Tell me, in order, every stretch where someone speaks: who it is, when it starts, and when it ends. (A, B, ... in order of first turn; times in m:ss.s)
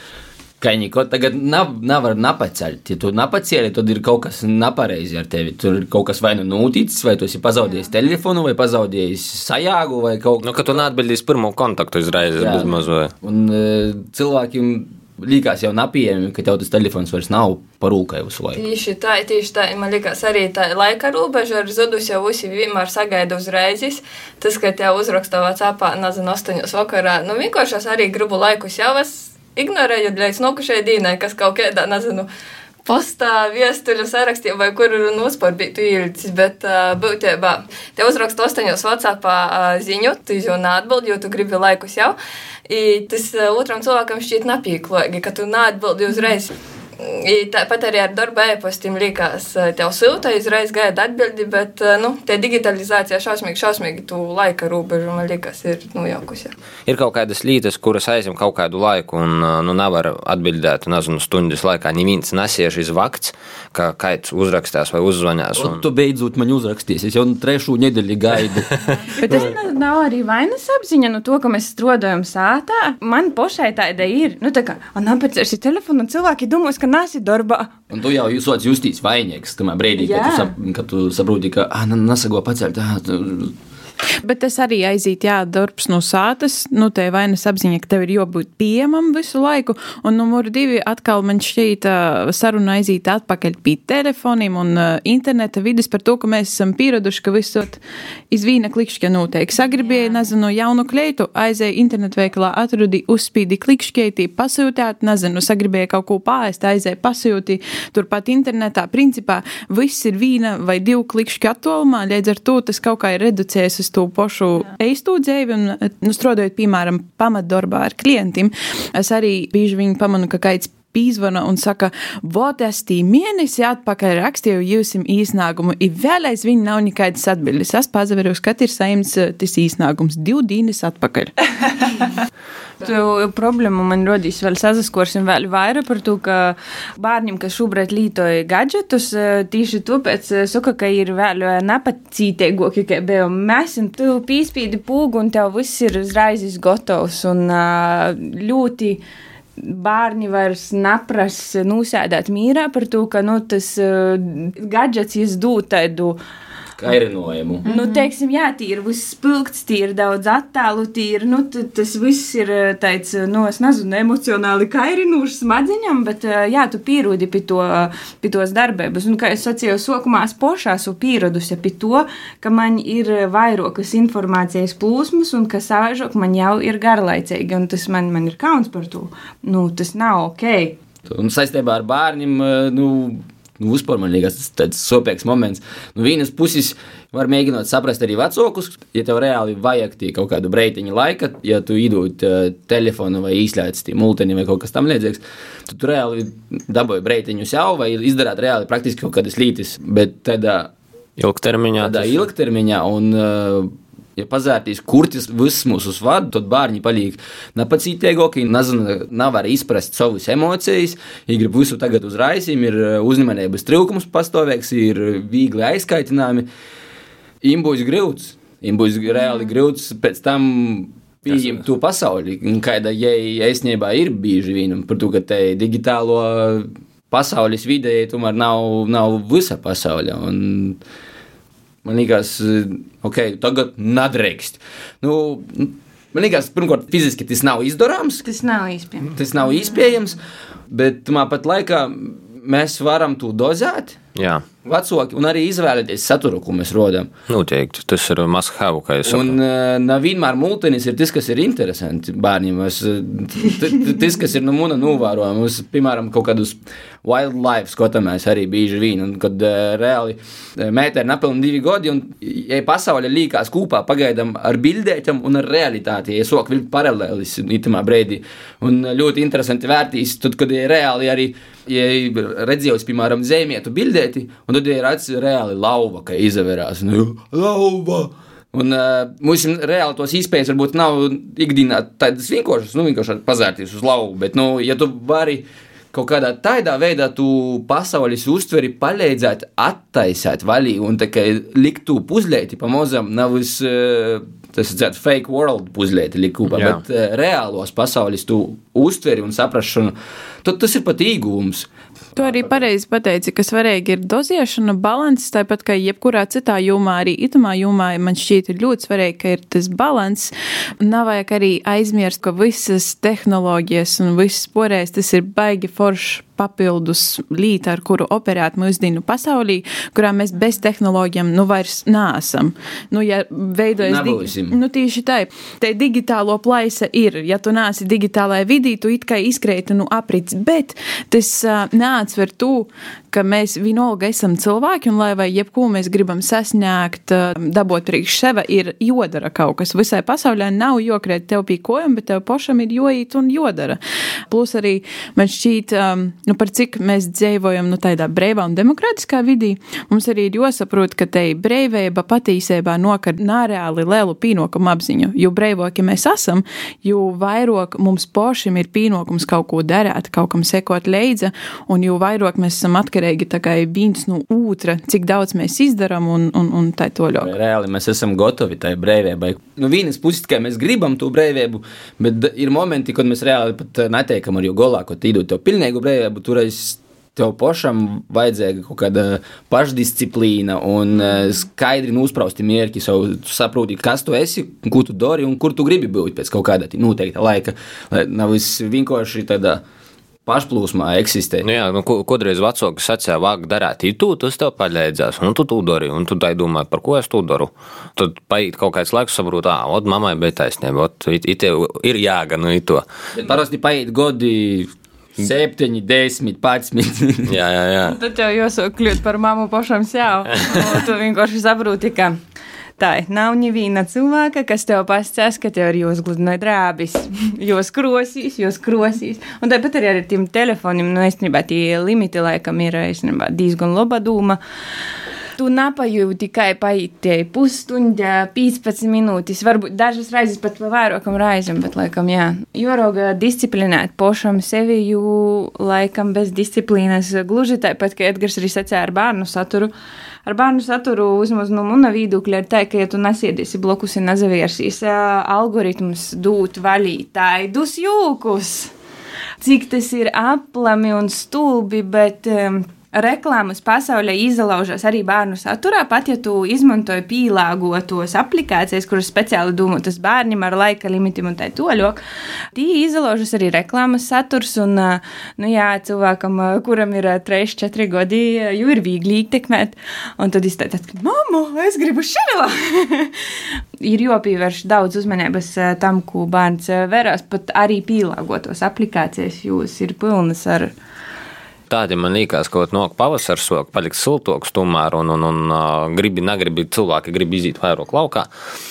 0:00.6-0:10.8 A
0:10.4-0:13.1 B
0:12.3-0:18.6 A
0:18.6-0:32.3 C
0:32.8-0:42.2 C
0:42.7-0:56.5 C
0:56.9-1:05.8 B
1:05.6-1:08.7 A
1:09.2-1:17.7 D
1:17.9-1:23.5 A
1:20.0-1:20.5 D
1:24.2-2:11.3 E
2:12.8-2:29.0 D
2:29.6-2:36.2 D
2:36.8-2:37.6 A
2:37.6-3:00.8 D
3:01.1-3:20.7 A
3:21.2-3:22.1 B
3:21.8-3:36.5 A
3:37.4-3:50.8 A
3:51.8-3:58.2 A
3:58.2-3:59.2 D
3:59.1-4:00.2 A
4:00.7-4:04.0 A
4:04.2-4:04.4 B
4:04.6-4:07.1 A
4:07.3-4:09.4 B
4:09.0-5:02.4 A
4:56.5-4:56.8 B
5:02.2-6:07.3 E
5:23.8-5:24.6 A
6:07.2-6:29.6 A
6:30.2-6:31.5 A
6:31.4-6:42.8 B
6:43.1-6:47.3 A
6:47.3-6:48.0 B
6:47.8-6:52.2 D
6:52.8-7:04.4 D
7:05.4-7:19.7 D
7:20.2-7:28.7 D
7:29.4-7:42.0 D
7:42.5-7:53.1 D
7:53.8-8:00.7 D
8:01.7-8:08.3 B